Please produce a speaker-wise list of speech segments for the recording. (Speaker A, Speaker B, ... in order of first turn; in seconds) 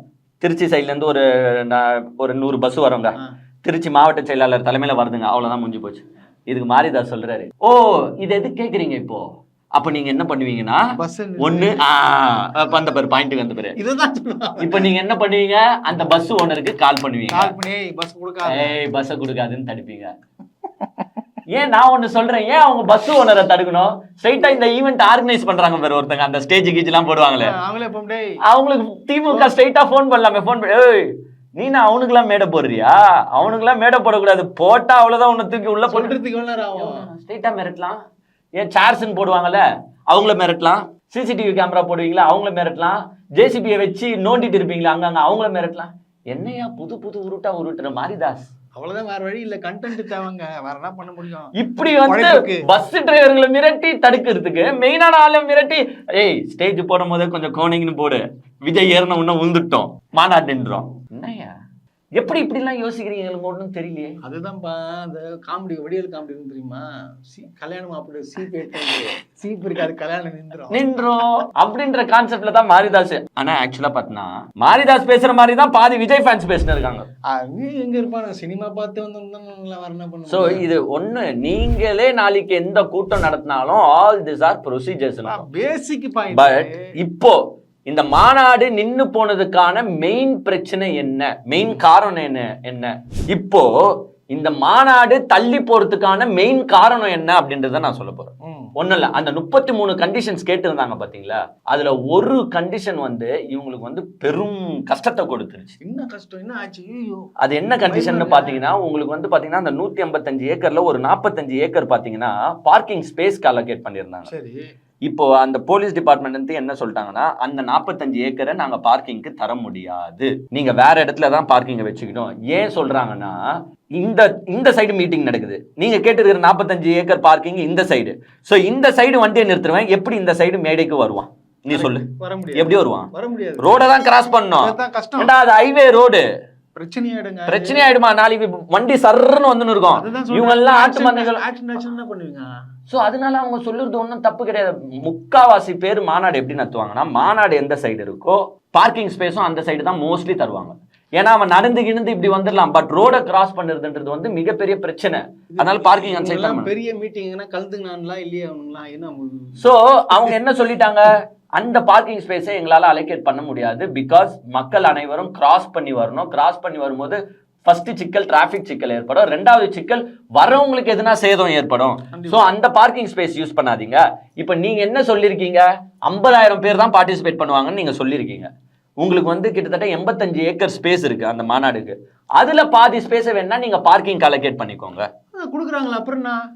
Speaker A: 0.4-10.9, 11.4-13.8, 14.6-17.5, 18.4-20.1, 21.5-27.5, 28.5-36.2, 36.8-38.0, 38.6-48.5, 51.5-61.5, 62.2-64.2, 70.7-77.1, 80.3-85.4, 86.3-87.4, 87.9-93.7, 94.3-105.8, 107.4-114.3, 115.1-123.4, 124.0-136.2, 137.5-141.4, 142.9-156.7, 159.6-178.5, 179.0-185.1
Speaker B: 11.0-11.8, 13.8-14.9, 17.3-18.8, 27.4-28.3, 35.9-37.0, 48.8-52.8, 64.2-70.8, 77.3-80.7, 85.3-86.8, 98.4-98.7, 105.8-107.2, 107.8-108.6, 114.3-114.6, 131.7-133.9, 134.6-135.3, 136.8-137.9, 139.9-142.5, 155.5-160.4, 172.1-172.5, 185.3-186.4